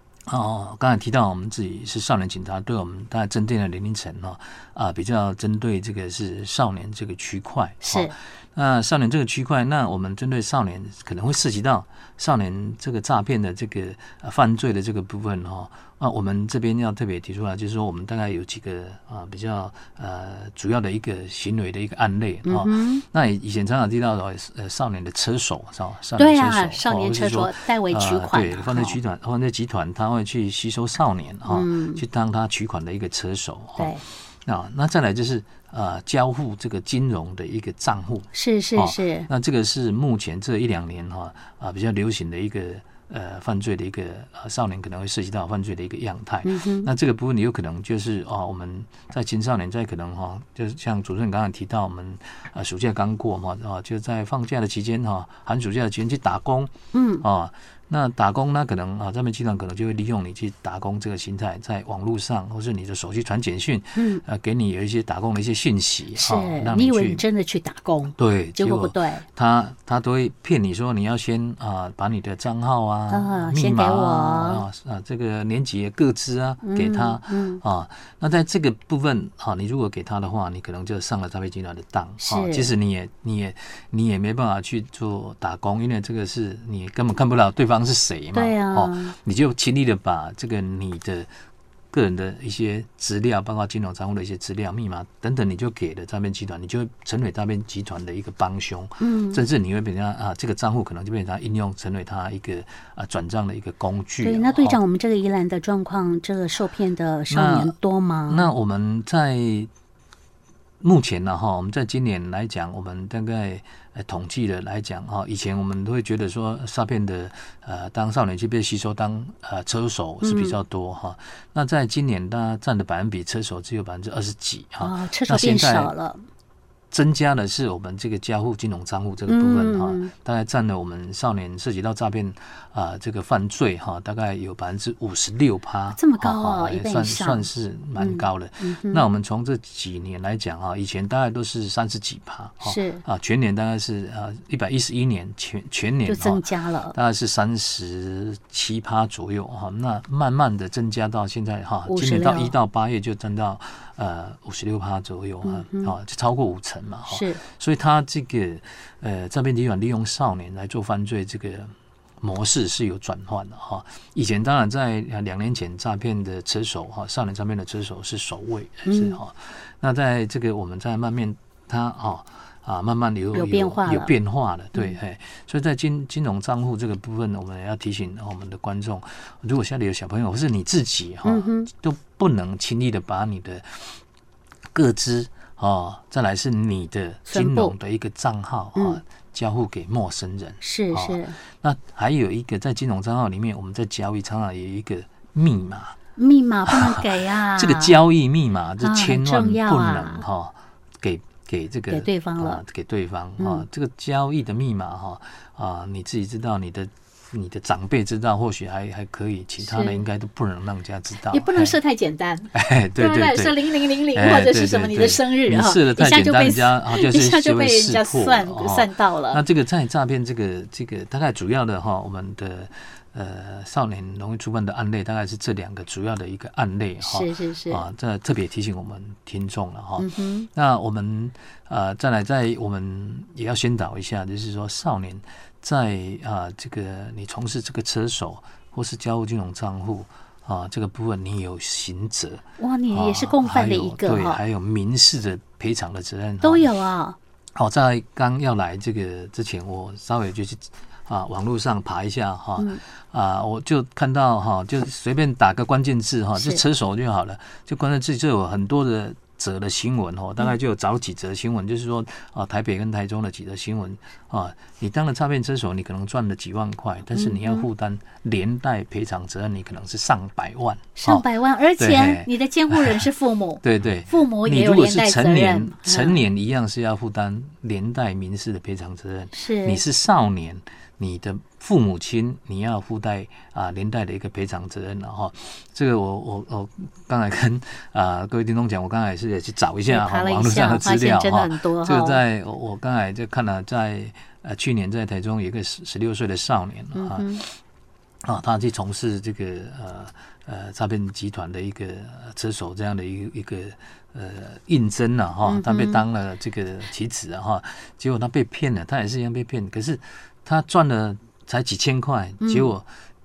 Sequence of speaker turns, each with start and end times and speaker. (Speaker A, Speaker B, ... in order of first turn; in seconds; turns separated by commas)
Speaker A: 0.3-67.2, Speaker B: 7.8-8.1, Speaker B: 22.4-23.0, Speaker B: 26.2-29.0, Speaker B: 31.5-32.0, Speaker B: 33.8-34.0, Speaker B: 38.3-39.3, Speaker B: 46.4-46.9, Speaker B: 56.9-57.2, Speaker B: 64.0-64.2, Speaker B: 66.1-69.2, Speaker A: 68.2-91.3, Speaker B: 73.1-74.6, Speaker B: 76.6-77.6, Speaker B: 82.2-82.7, Speaker B: 88.3-89.1, Speaker A: 91.9-104.8, Speaker B: 99.0-99.4, Speaker B: 104.2-108.5, Speaker A: 107.3-107.8, Speaker A: 108.3-109.7, Speaker A: 110.8-125.9, Speaker B: 120.2-120.6, Speaker B: 124.8-126.2, Speaker A: 126.9-184.0, Speaker B: 129.3-130.1, Speaker B: 135.9-139.1, Speaker B: 142.6-143.0, Speaker B: 146.0-146.9, Speaker B: 151.8-152.5, Speaker B: 155.4-155.9, Speaker B: 157.1-157.4, Speaker B: 168.8-169.2, Speaker B: 173.3-174.2, Speaker B: 181.2-181.7, Speaker A: 184.7-195.9, Speaker B: 187.3-187.7, Speaker B: 188.7-189.0, Speaker B: 190.6-191.3, Speaker B: 196.2-198.0, Speaker A: 196.7-211.8, Speaker B: 198.8-200.2, Speaker B: 201.9-202.6, Speaker B: 203.4-203.6, Speaker B: 209.6-210.0, Speaker B: 211.2-219.4, Speaker A: 212.5-246.7, Speaker B: 227.0-227.8, Speaker B: 230.0-230.5, Speaker B: 242.6-244.4, Speaker B: 246.4-247.2, Speaker A: 247.6-273.1, Speaker B: 256.4-256.6, Speaker B: 267.1-267.7, Speaker B: 271.0-276.2, Speaker A: 273.6-297.6, Speaker B: 279.3-279.8, Speaker B: 289.8-292.2, Speaker B: 296.9-297.4, Speaker A: 298.2-312.9, Speaker B: 305.4-306.0, Speaker B: 312.4-312.7